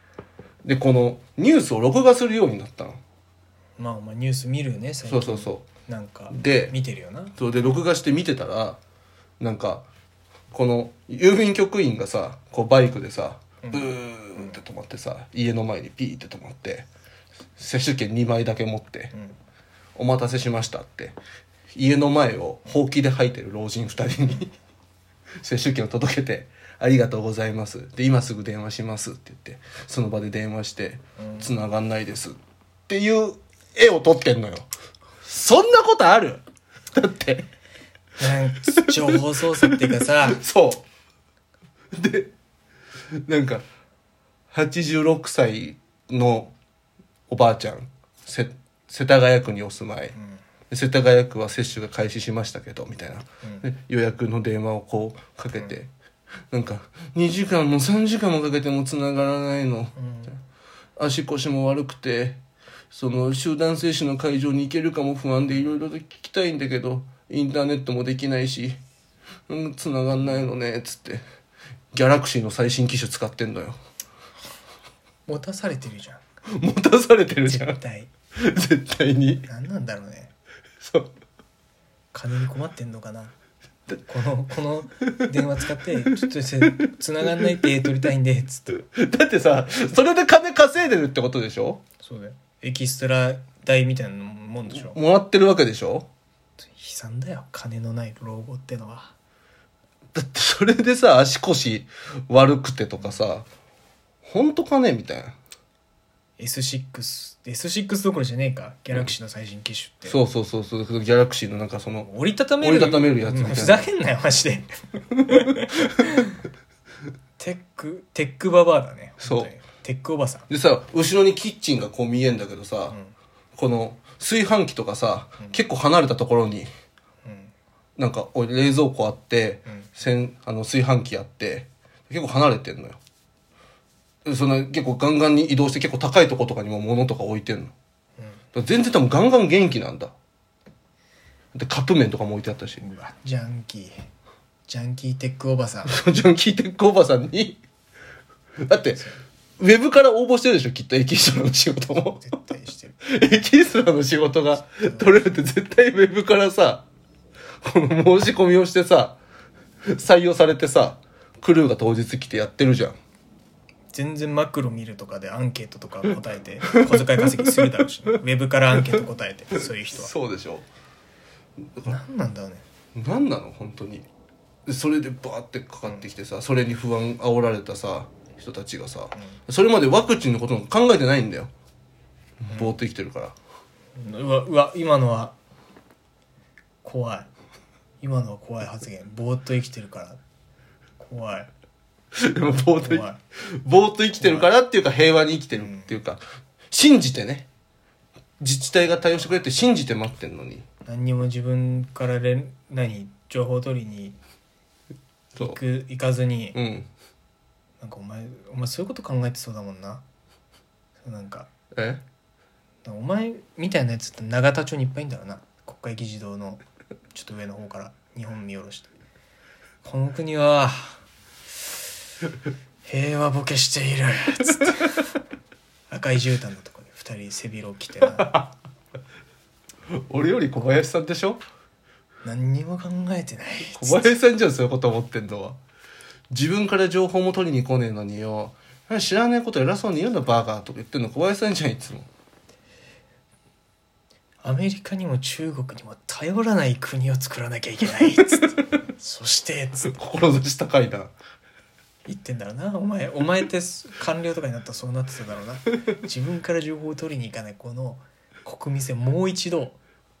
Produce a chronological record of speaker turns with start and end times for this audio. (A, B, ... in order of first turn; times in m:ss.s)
0:00.6-0:03.0 A
0:03.8-0:07.3 B
0:05.0-0:05.6 A
0:06.3-0:06.7 A
0:07.4-0:08.8 A
0:09.4-0:09.8 A
0:10.5-0:16.9 A
0:13.6-0:14.5 B
0:17.6-0:19.1 A
0:20.0-0:21.2 A
0:21.7-0:24.5 A
0:25.4-0:32.4 A
0:31.2-0:31.5 B
0:32.9-0:34.7 A
0:35.2-0:36.4 A
0:36.9-0:37.4 A
0:38.2-0:40.4 B
0:39.1-0:40.8 A
0:41.9-0:42.3 A
0:43.2-0:43.6 A
0:44.5-0:46.5 A
0:47.3-0:50.1 A
0:50.2-0:50.4 B
0:50.7-0:55.9 A
0:56.5-0:59.9 A
1:00.0-1:00.3 B
1:01.0-1:02.4 A
1:02.9-1:08.8 A
1:09.5-1:11.2 A
1:11.9-1:13.8 A
1:15.3-1:16.2 B
1:16.5-1:17.8 A
1:17.4-1:18.1 B
1:18.4-1:19.4 A
1:19.4-1:20.3 B
1:20.8-1:21.1 A
1:22.1-1:23.3 B
1:24.0-1:28.8 B
1:28.8-1:31.8 A
1:32.0-1:35.0 B
1:34.7-1:36.1 A
1:36.6-1:39.1 B
1:40.1-1:43.4 A
1:44.2-1:45.3 A
1:46.4-1:50.2 B
1:50.1-1:52.1 A
1:52.0-1:54.7 B
1:52.6-1:53.9 A
1:55.2-1:56.4 B
1:57.4-2:00.5 B
1:59.2-1:59.5 A
2:00.5-2:03.0 A
2:03.6-2:06.7 A
2:07.2-2:07.5 B
2:08.0-2:13.0 A
2:14.2-2:17.7 A
2:18.5-2:20.1 A
2:21.5-2:22.8 A
2:22.8-2:24.0 B
2:24.7-2:26.0 B
2:25.8-2:27.6 A
2:28.6-2:29.0 A
2:28.9-2:29.2 B
2:29.6-2:32.2 A
2:32.0-2:33.0 B
2:33.0-2:36.8 A
2:34.7-2:35.1 B
2:37.6-2:39.2 A
2:39.9-2:43.0 A
2:43.9-2:50.1 B
2:46.6-2:48.0 A
2:49.6-2:50.7 A
2:51.8-2:52.6 B
2:52.9-2:54.1 A
2:54.6-3:01.5 A
3:02.4-3:03.3 A
3:02.5-3:02.8 B
3:04.0-3:05.3 B
3:06.8-3:07.3 B
3:08.0-3:10.2 B
3:11.0-3:11.5 B
3:12.1-3:13.0 A
3:12.6-3:13.2 B
3:13.6-3:17.4 A
3:14.2-3:14.5 B
3:15.6-3:15.9 B
3:18.4-3:20.6 A
3:20.8-3:24.2 B
3:25.4-3:26.6 B
3:26.5-3:26.9 A
3:27.8-3:30.0 B
3:31.0-3:31.5 B
3:31.7-3:32.0 A
3:32.8-3:36.6 B
3:37.1-3:38.9 B
3:39.8-3:41.0 B
3:42.8-3:45.0 B
3:45.9-3:48.4 B
3:48.2-3:48.5 A
3:50.1-3:51.4 A
3:52.2-3:54.1 B
3:53.7-3:55.6 A
3:56.3-4:02.1 A
4:04.4-4:09.9 B
4:09.8-4:11.1 A
4:12.1-4:19.8 B